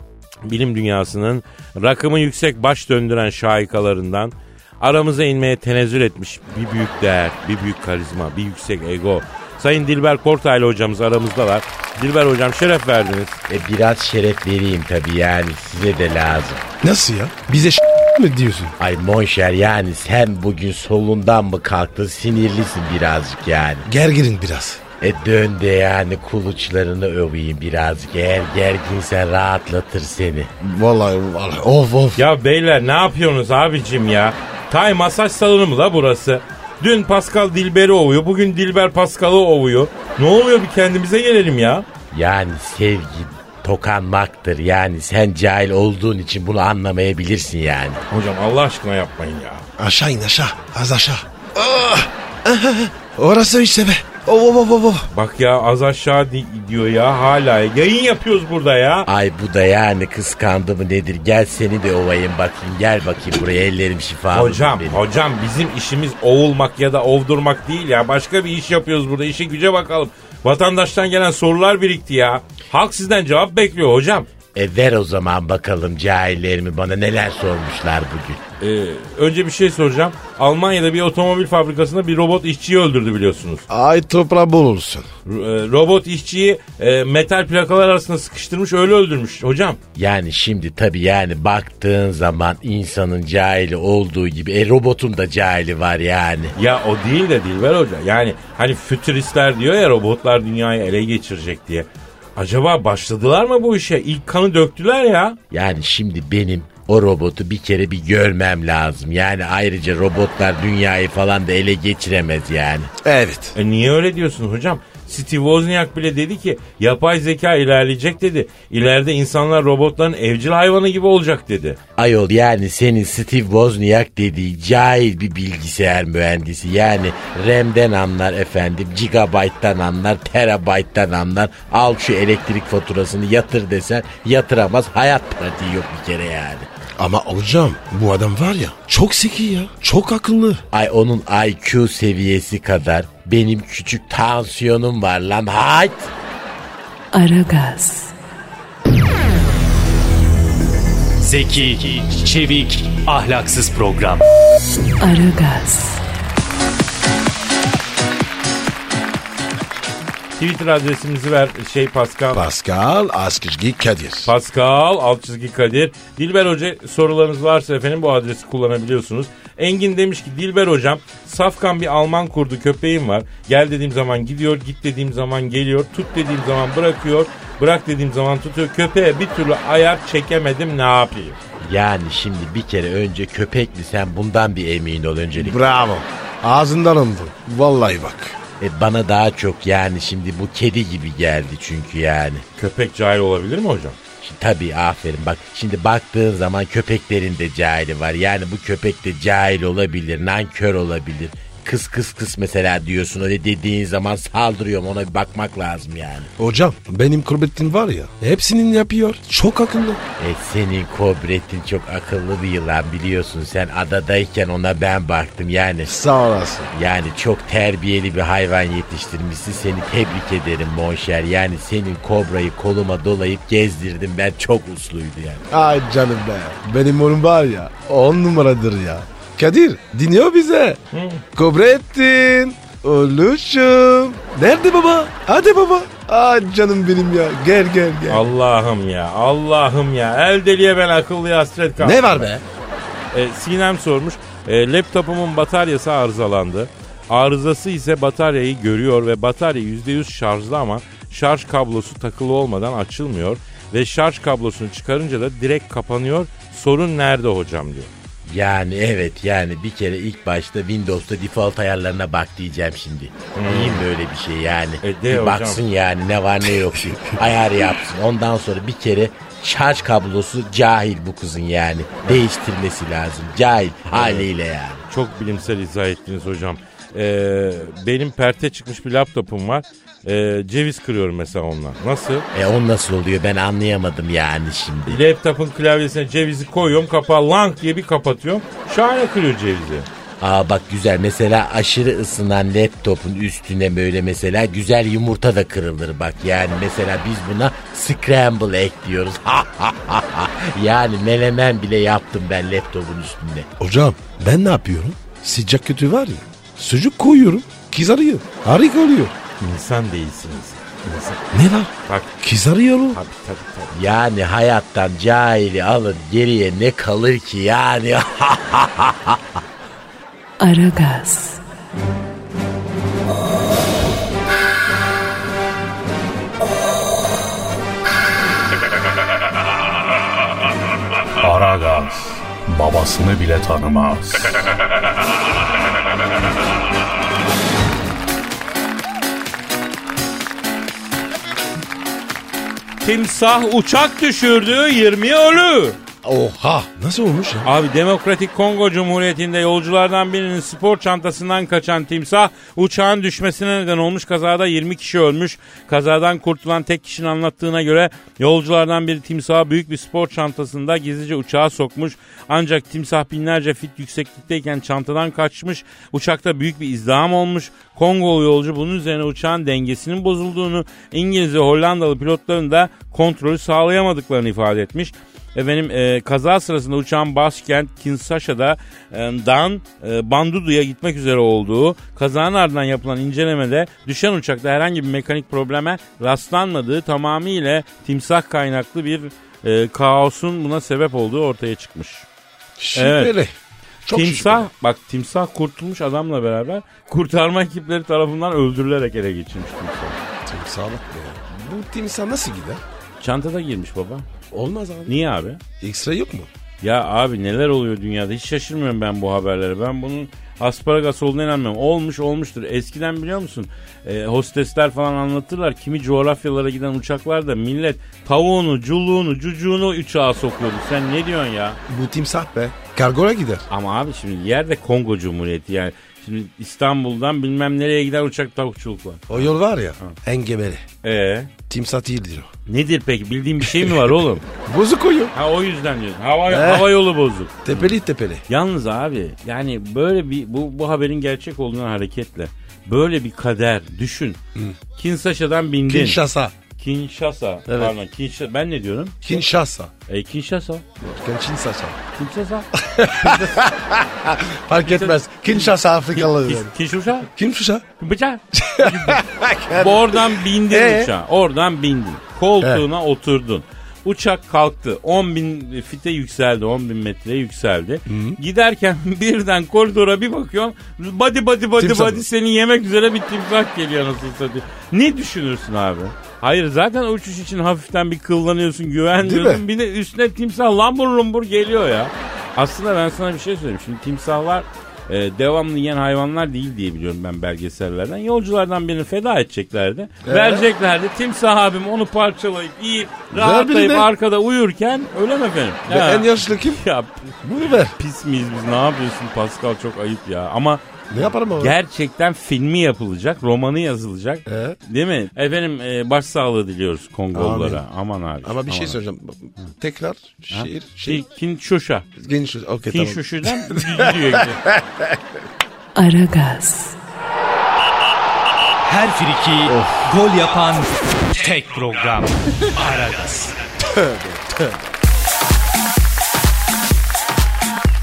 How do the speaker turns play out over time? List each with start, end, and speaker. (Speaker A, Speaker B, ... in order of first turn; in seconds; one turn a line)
Speaker A: 0.5-13.4
Speaker B: 13.5-16.6
Speaker C: 16.8-18.8
Speaker B: 18.8-23.9
Speaker C: 23.9-24.8
Speaker B: 25.0-30.5
Speaker C: 30.6-32.2
Speaker A: 32.2-41.9
Speaker B: 42.1-48.0
Speaker A: 48.1-49.7
Speaker C: 49.8-55.1
Speaker A: 55.1-59.1
Speaker B: 59.1-65.0
Speaker A: 64.3-74.3
Speaker B: 74.5-78.4
Speaker A: 78.6-83.7
Speaker C: 83.7-85.1
Speaker A: 85.3-89.8
Speaker B: 90.0-96.5
Speaker A: 96.5-105.4
Speaker B: 105.5-112.9
Speaker C: 113.0-113.6
Speaker A: 113.5-121.8
Speaker B: 122.0-136.7
Speaker C: 137.0-140.6
Speaker B: 140.7-146.1
Speaker D: 147.1-148.1
Speaker E: 151.2-154.2
Speaker D: 155.0-156.0
Speaker A: 160.4-162.4
Speaker C: 162.3-164.3
Speaker A: 164.2-181.4
Speaker B: 181.6-185.6
Speaker C: 185.3-188.4
Speaker B: 188.6-192.4
Speaker A: 192.6-194.0
Speaker B: 194.2-206.3
Speaker C: 206.4-210.0
Speaker B: 210.2-215.9
Speaker C: 215.8-216.7
Speaker B: 216.7-225.4
Speaker C: 225.5-230.8
Speaker A: 230.9-231.2
Speaker C: 231.3-238.2
Speaker A: 238.1-242.3
Speaker C: 241.8-242.4
Speaker A: 243.1-257.9
Speaker B: 258.3-274.8
Speaker A: 263.4-263.8
Speaker A: 264.8-265.6
Speaker A: 273.9-274.3
Speaker A: 274.9-282.3
Speaker B: 282.3-285.0
Speaker A: 284.9-289.9
Speaker B: 290.2-303.5
Speaker C: 303.6-309.1
Speaker A: 309.4-311.3
Speaker C: 311.3-313.0
Speaker A: 311.9-312.1
Speaker A: 312.9-313.7
Speaker B: 313.7-319.2
Speaker D: 320.4-321.4
Speaker F: 331.2-334.4
Speaker A: 342.8-345.8
Speaker C: 346.0-347.5
Speaker A: 347.4-392.1
Speaker C: 392.6-393.3
Speaker A: 392.8-393.1
Speaker C: 393.8-394.5
Speaker A: 393.9-400.0
Speaker C: 400.3-402.6
Speaker A: 403.0-404.1
Speaker C: 404.3-405.0
Speaker A: 404.9-405.4
Speaker C: 405.6-406.3
Speaker A: 406.6-421.6
Speaker C: 421.7-423.5
Speaker A: 423.5-430.0
Speaker C: 429.1-430.6
Speaker A: 430.8-431.3
Speaker C: 431.5-432.3
Speaker A: 432.5-434.3
Speaker C: 433.4-435.1
Speaker A: 435.1-437.7
Speaker C: 436.3-436.7
Speaker C: 437.4-438.2
Speaker A: 438.3-444.2
Speaker A: 444.8-446.0
Speaker C: 445.7-446.3
Speaker A: 446.6-449.2
Speaker C: 447.5-447.7
Speaker C: 449.0-449.7
Speaker A: 449.9-450.7
Speaker C: 450.8-451.8
Speaker A: 452.0-452.5
Speaker C: 452.5-456.5
Speaker A: 453.0-453.3
Speaker A: 454.6-457.1
Speaker C: 457.1-457.6
Speaker A: 457.8-500.6
Speaker C: 458.3-460.9
Speaker C: 467.9-468.2
Speaker C: 471.6-472.0
Speaker C: 479.0-479.4
Speaker C: 490.0-490.5
Speaker C: 493.1-493.9
Speaker C: 495.7-496.6
Speaker C: 497.2-497.8
Speaker C: 500.9-501.6
Speaker A: 501.4-508.8
Speaker C: 504.3-504.6
Speaker C: 507.1-507.6
Speaker C: 508.2-511.0
Speaker A: 510.3-511.9
Speaker C: 512.0-515.0
Speaker A: 512.7-514.4
Speaker D: 515.8-516.8
Speaker E: 518.6-523.4
Speaker C: 519.5-519.9
Speaker C: 523.7-524.4